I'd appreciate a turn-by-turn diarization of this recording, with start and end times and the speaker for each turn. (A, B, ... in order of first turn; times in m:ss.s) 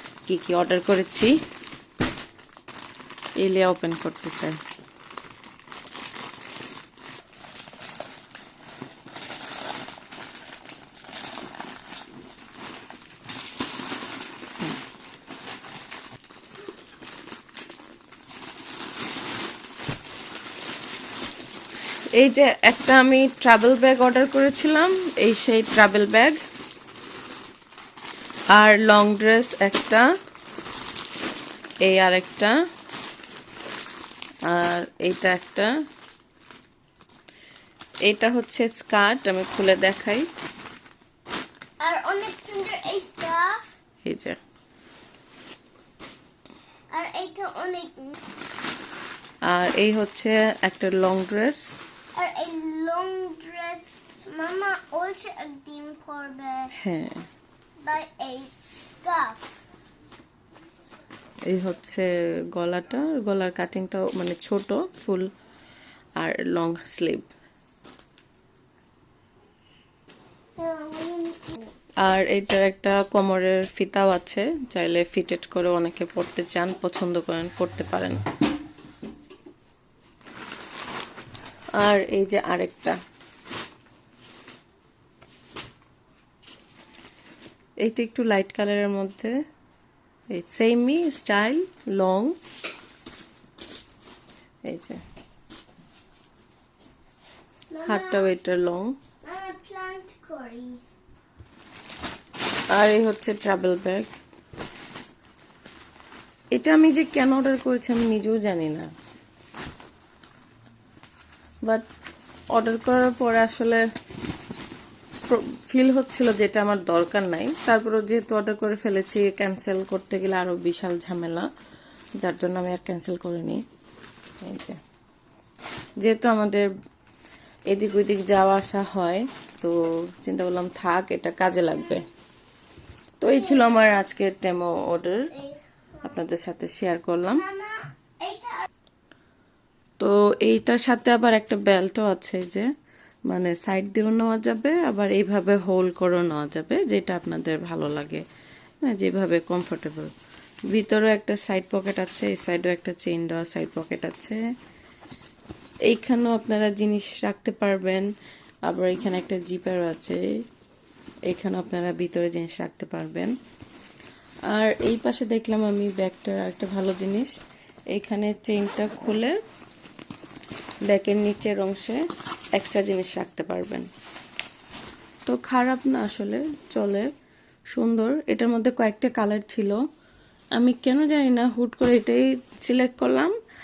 0:00.3-0:01.4 A
0:03.4-0:04.6 A
0:22.2-0:26.4 A
0:28.5-0:30.1 A
0:31.8-0:32.6 A
0:34.5-0:35.7 A
0:38.1-0:40.3 A
0:41.8-0:43.6 B
0:44.0-0:44.4 A
0:46.9-0:48.2 B
0:49.5-0:51.7 A
0:52.2-0:56.7 B
0:56.8-0:57.2 A
0:57.8-0:59.4 B
1:01.5-1:05.3 A
1:06.2-1:07.3 A
1:10.6-1:11.6 B
1:12.0-1:18.2 A
1:21.8-1:23.0 A
1:27.8-1:29.3 A
1:30.3-1:32.4 A
1:34.7-1:35.0 A
1:37.7-1:38.3 B
1:37.9-1:39.0 A
1:39.2-1:40.8 B
1:42.7-1:44.1 A
1:46.5-1:48.9 A
1:52.6-1:53.8 A
1:55.3-2:01.5 A
2:02.2-2:03.6 A
2:04.4-2:04.8 A
2:06.0-2:06.7 A
2:07.7-2:12.1 A
2:13.2-2:15.3 A
2:13.4-2:13.9 B
2:15.3-2:16.1 B
2:16.0-2:17.5 A
2:17.4-2:18.7 B
2:20.0-2:22.7 A
2:23.3-2:28.2 A
2:28.8-2:30.1 A
2:30.7-2:34.4 A
2:35.9-2:38.1 A
2:38.7-2:40.2 A
2:41.3-2:43.4 A
2:44.5-2:47.3 A
2:47.9-2:49.4 A
2:50.9-2:52.0 A
2:52.5-2:53.9 A
2:55.3-2:57.1 A
2:57.7-2:59.8 A
3:00.6-3:03.4 A